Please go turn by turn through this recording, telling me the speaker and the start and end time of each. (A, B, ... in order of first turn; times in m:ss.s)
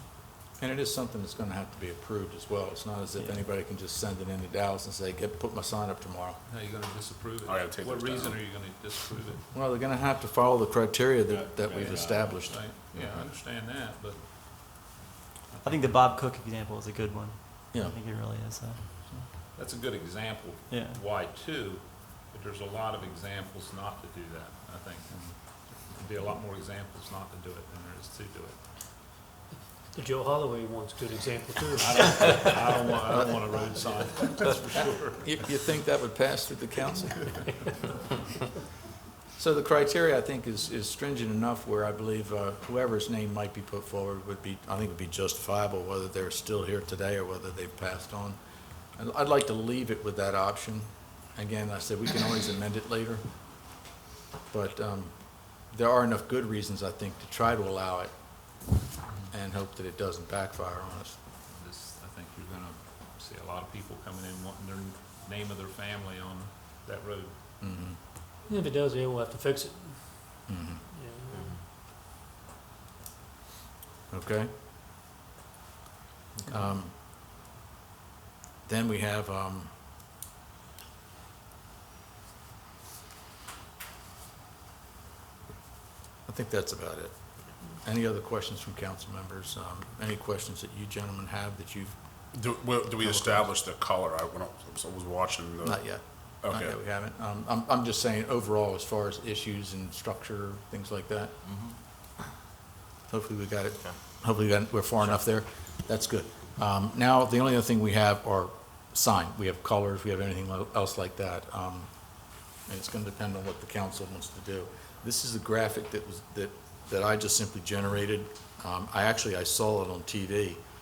0:00.6-0:06.4 A
0:06.5-0:09.4 B
0:07.4-0:08.4 C
0:09.5-0:13.2 A
0:11.5-0:14.2 B
0:15.5-0:16.0 B
0:15.6-0:19.2 D
0:19.5-0:28.6 B
0:20.7-0:21.0 D
0:29.9-0:32.0 E
0:31.8-0:35.5 B
0:34.7-0:37.4 A
0:39.3-0:48.4 A
0:49.0-0:53.2 A
0:54.5-0:58.7 A
0:59.3-1:01.2 A
1:01.5-1:07.3 B
1:07.6-1:08.0 A
1:08.5-1:11.4 E
1:10.5-1:10.8 A
1:14.1-1:14.5 A
1:16.5-1:16.9 A
1:18.6-1:19.7 A
1:26.2-1:27.1 A
1:27.8-1:32.0 A
1:32.3-1:35.8 C
1:33.0-1:33.4 A
1:35.6-1:41.3 A
1:36.4-1:36.8 C
1:43.1-1:51.9 A
1:52.6-2:00.6 A